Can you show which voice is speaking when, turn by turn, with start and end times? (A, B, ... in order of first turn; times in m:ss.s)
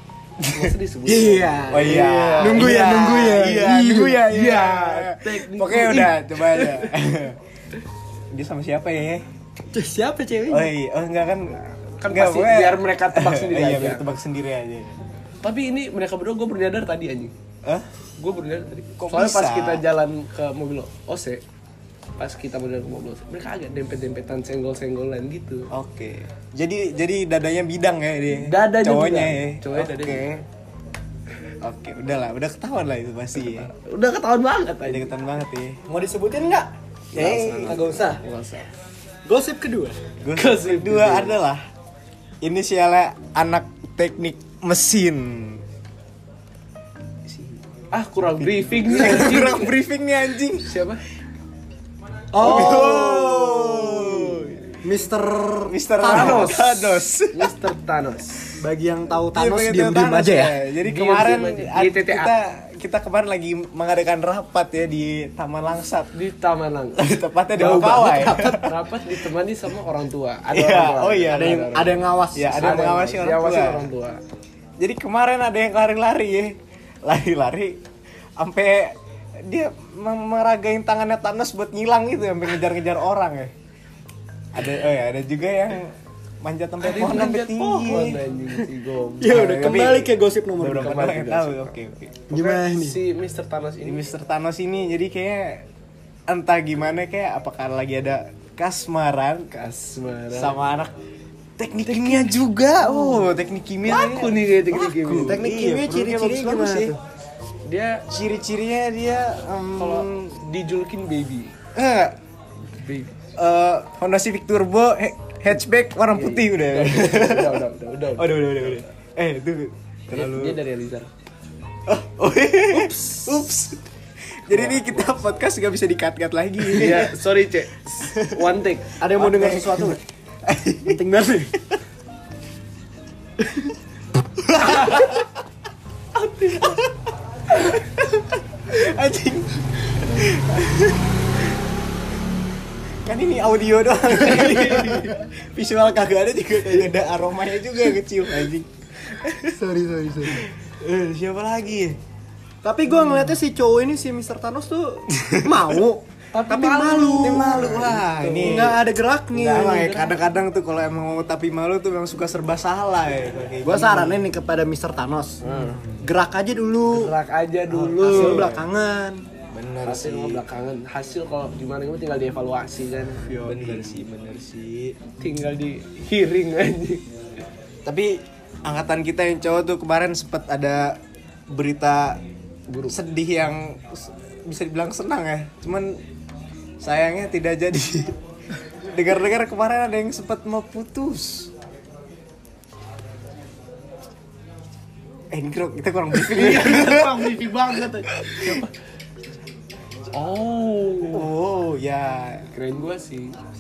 0:00.4-0:00.6 A
0:00.5-0:02.8 B
0:01.1-0:04.2 C
0:01.7-0:07.4 A
0:04.2-0:07.0 B
0:08.3-0:09.2 A
0:09.7-0:10.7 C
0:10.5-0:15.0 A
0:12.0-0:14.1 B
0:15.4-0:17.3 B
0:18.2-0:21.4 B
0:19.0-0:19.8 A
0:22.2-0:25.7 B
0:25.7-0:30.4 A
0:28.4-0:30.4 B
0:31.6-0:33.7 A
0:33.4-0:35.1 B
0:34.8-0:35.8 A
0:35.9-0:36.7 C
0:37.1-0:37.9 A
0:37.1-0:38.7 B
0:37.6-0:38.2 C
0:39.2-0:40.0 C
0:40.2-0:41.6 A
0:40.3-0:41.4 B
0:42.4-0:45.6 A
0:47.3-0:47.6 A
0:47.9-0:49.8 B
0:48.2-0:50.8 A
0:50.6-0:51.0 B
0:52.3-0:53.3 C
0:52.4-0:54.6 A
0:54.8-0:56.5 C
0:55.6-0:57.5 A
0:56.0-0:58.6 B
0:58.6-1:00.6 C
0:59.3-1:06.1 A
1:00.8-1:02.3 B
1:06.1-1:14.2 B
1:07.0-1:08.8 A
1:10.5-1:11.6 A
1:11.3-1:12.6 C
1:12.3-1:13.9 A
1:14.8-1:17.8 A
1:18.4-1:23.5 A
1:24.5-1:28.2 A
1:26.8-1:29.4 B
1:29.2-1:31.0 C
1:29.2-1:32.2 A
1:30.8-1:31.8 B
1:32.3-1:33.0 C
1:32.3-1:34.0 B
1:33.8-1:35.6 A
1:36.3-1:39.5 A
1:39.5-1:40.6 B
1:40.3-1:40.9 A
1:41.6-1:46.9 A
1:41.8-1:45.4 B
1:45.2-1:47.0 C
1:47.6-1:48.0 B
1:48.1-1:50.4 A
1:49.8-1:51.5 B
1:51.7-1:52.2 A
1:52.7-1:53.1 B
1:53.4-2:00.6 A
1:56.1-1:58.9 B
2:00.1-2:01.1 B
2:01.9-2:03.8 A
2:04.4-2:07.2 A
2:04.5-2:05.1 B
2:06.7-2:09.0 B
2:08.0-2:08.6 A
2:09.0-2:10.0 C
2:09.2-2:11.0 A
2:10.8-2:11.6 C
2:14.5-2:15.2 A
2:14.7-2:15.0 B
2:16.2-2:16.8 B
2:16.6-2:16.8 A
2:17.5-2:21.0 A
2:23.0-2:29.6 A
2:24.2-2:25.0 B
2:29.5-2:30.5 C
2:30.3-2:32.0 A
2:32.6-2:37.8 C
2:36.3-2:38.8 B
2:37.2-2:38.8 A
2:38.4-2:39.9 C
2:39.3-2:40.2 B
2:39.4-2:44.3 A
2:43.6-2:45.4 C
2:45.4-2:45.8 B
2:45.5-2:46.0 A
2:46.0-2:47.1 C
2:46.9-2:48.5 B
2:47.7-2:48.6 A
2:48.0-2:49.2 C
2:49.5-2:50.4 A
2:49.8-2:53.4 B
2:53.2-2:55.0 A
2:53.3-2:53.8 C
2:55.2-2:57.0 B
2:57.8-3:01.0 A
3:01.5-3:02.2 A
3:02.7-3:03.0 B
3:02.9-3:06.0 A
3:06.8-3:08.1 A
3:08.9-3:11.5 A
3:15.3-3:18.6 A
3:16.1-3:18.7 B
3:20.1-3:21.3 B
3:21.1-3:22.5 A
3:22.5-3:23.4 B